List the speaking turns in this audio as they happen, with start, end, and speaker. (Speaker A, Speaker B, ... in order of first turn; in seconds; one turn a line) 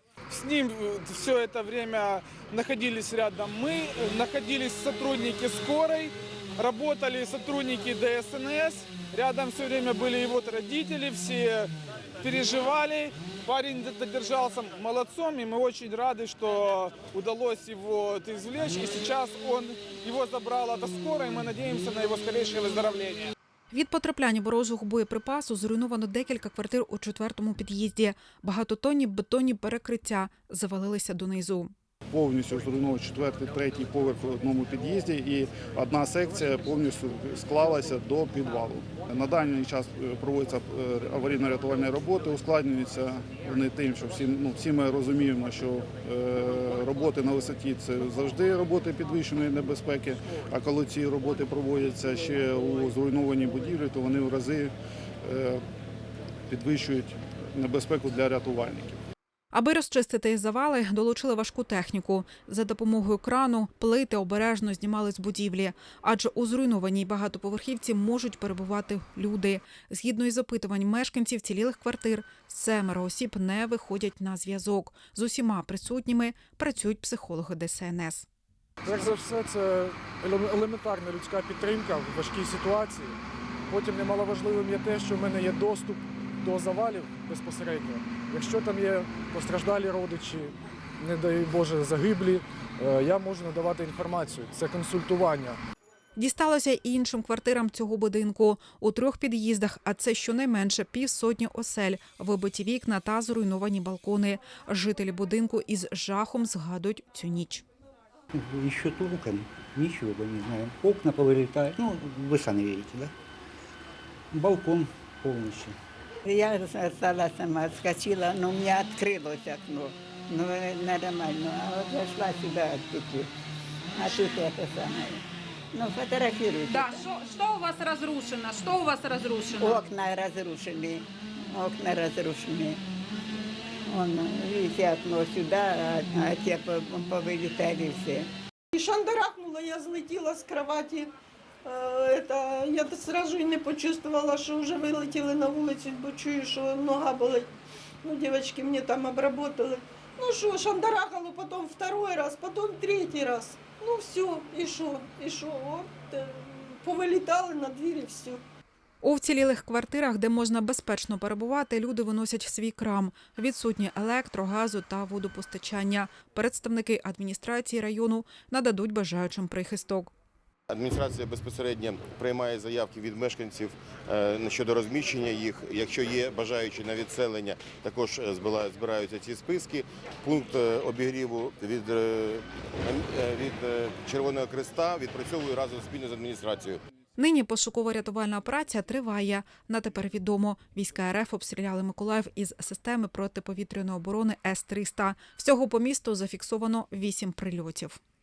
Speaker A: 0.3-11.7
Speaker A: 12.3-23.1
Speaker B: 23.7-31.7
Speaker C: 32.1-54.7
Speaker C: 55.2-55.6
Speaker C: 56.5-59.0
Speaker B: 59.5-78.3
Speaker D: 78.8-95.6
Speaker B: 96.2-107.7
Speaker E: 108.3-113.1
Speaker E: 114.3-115.8
Speaker F: 116.3-123.3
Speaker F: 124.0-125.2
Speaker F: 125.7-127.1
Speaker G: 126.7-129.9
Speaker F: 129.6-132.8
Speaker F: 133.9-138.3
Speaker H: 138.7-141.1
Speaker H: 141.7-147.5
Speaker H: 148.0-158.4
Speaker B: 159.0-170.1
Speaker I: 170.7-186.8
Speaker B: 187.2-198.0